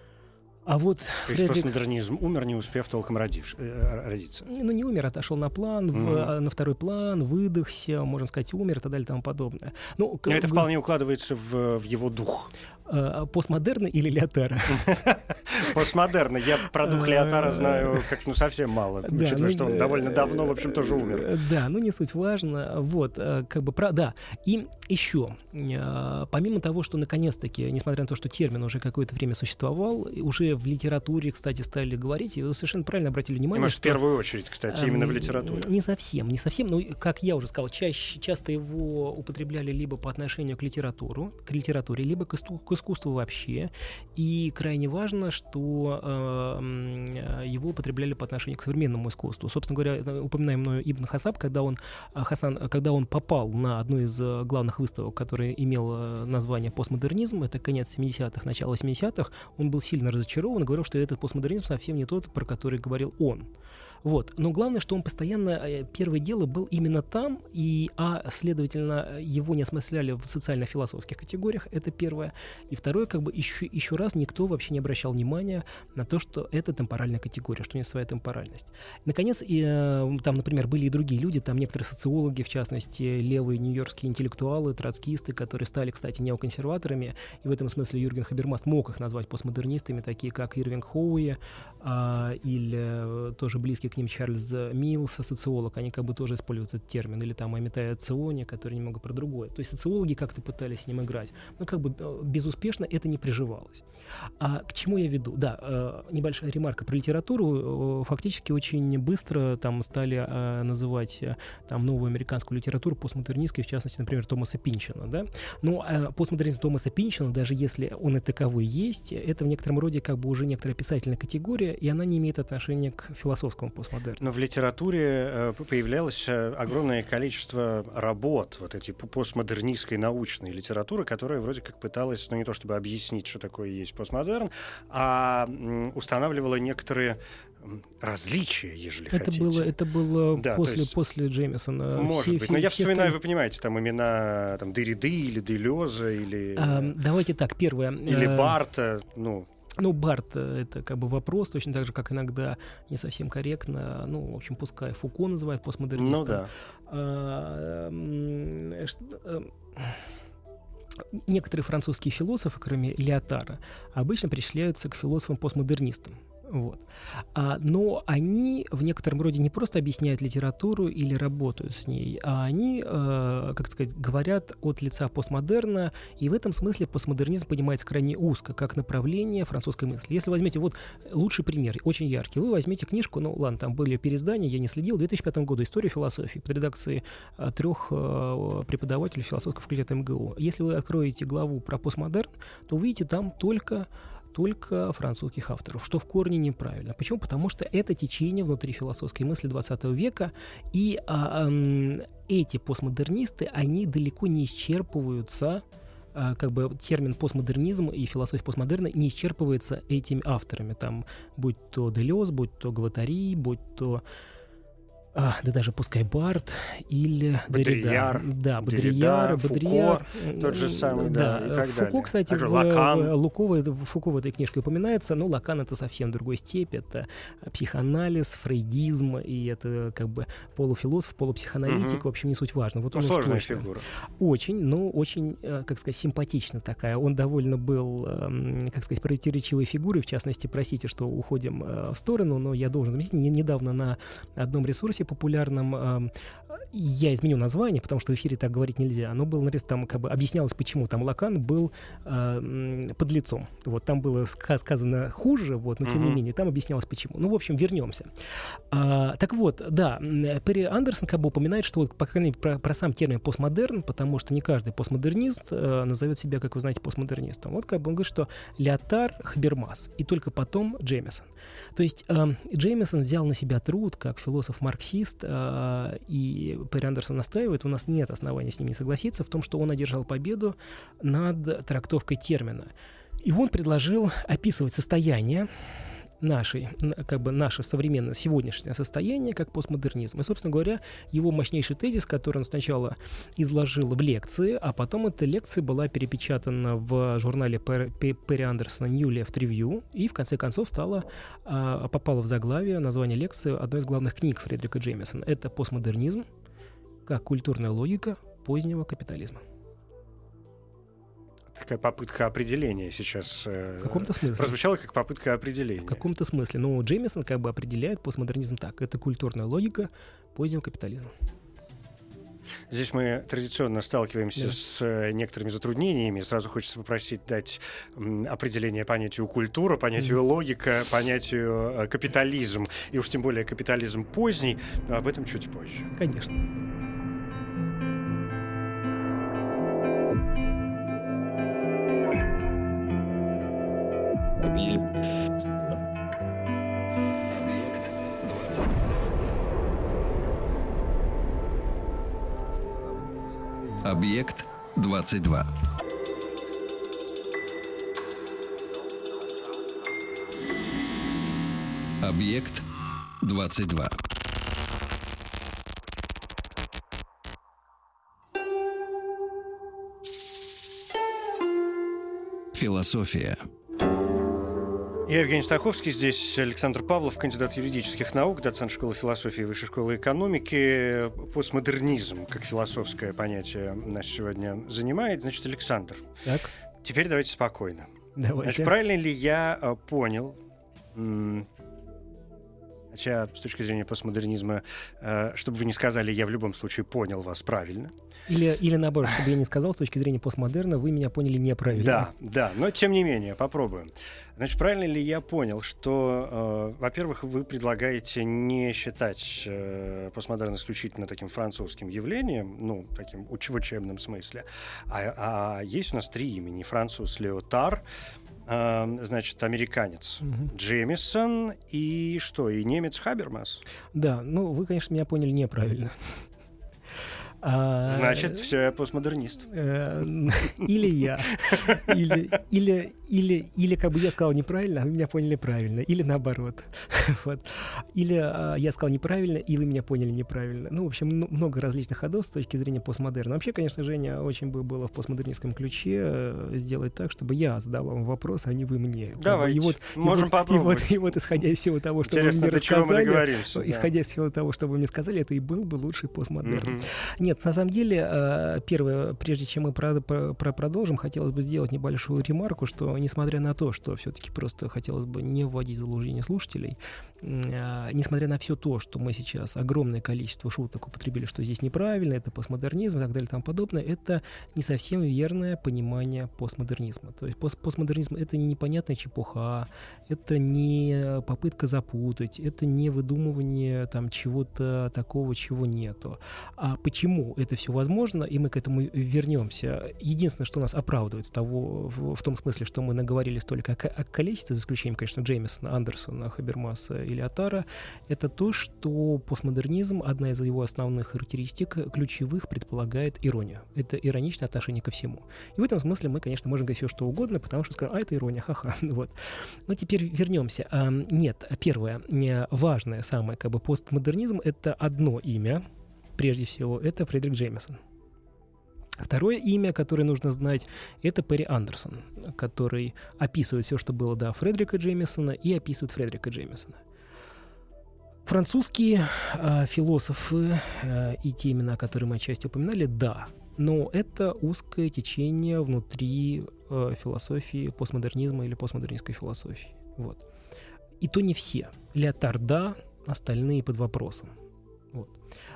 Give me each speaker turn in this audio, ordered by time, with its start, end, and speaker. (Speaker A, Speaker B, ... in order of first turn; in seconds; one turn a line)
Speaker A: 0.7-1.7
Speaker B: 1.3-4.5
Speaker A: 4.4-10.7
Speaker B: 5.9-6.3
Speaker B: 10.2-12.5
Speaker A: 12.8-15.0
Speaker B: 14.7-21.3
Speaker A: 16.8-18.0
Speaker A: 19.0-34.0
Speaker B: 33.5-35.6
Speaker A: 34.7-63.5
Speaker A: 64.0-103.8
Speaker A: 104.4-124.2
Speaker B: 124.2-139.7
Speaker A: 139.1-143.2
Speaker B: 140.3-140.9
Speaker B: 141.9-146.9
Speaker A: 146.6-148.6
Speaker B: 148.0-149.5
Speaker A: 149.8-160.0
Speaker B: 155.9-156.5
Speaker A: 161.1-205.6
Speaker A: 206.1-214.0
Speaker A: 215.1-258.1
Speaker B: 217.5-223.1
Speaker B: 231.7-232.0
Speaker B: 232.9-233.8
Speaker B: 255.8-256.2
Speaker A: 258.7-282.7
Speaker A: 283.2-306.2
Speaker A: 307.1-309.4
Speaker B: 311.5-316.0
Speaker A: 313.8-314.6
Speaker A: 315.8-321.1
Speaker B: 322.7-335.9
Speaker A: 335.9-336.4
Speaker C: 353.8-355.5
Speaker C: 362.0-362.6
Speaker C: 363.2-363.9
Speaker C: 372.5-373.4
Speaker B: 375.1-386.1
Speaker A: 386.2-386.5
Speaker B: 386.8-387.9
Speaker A: 388.1-388.7
Speaker B: 388.4-390.4
Speaker B: 390.9-391.5
Speaker B: 392.9-397.9
Speaker A: 398.3-402.1
Speaker B: 401.7-417.8
Speaker B: 418.4-423.6
Speaker A: 420.2-420.5
Speaker A: 423.9-425.9
Speaker A: 427.4-428.5
Speaker B: 427.9-429.5
Speaker A: 429.5-509.1
Speaker B: 449.2-451.1
Speaker B: 452.0-453.9
Speaker B: 456.4-456.9
Speaker A: 509.7-515.6
Speaker A: 516.2-517.8
Speaker A: 519.0-526.8
Speaker A: 528.2-540.2
Speaker A: 541.0-544.3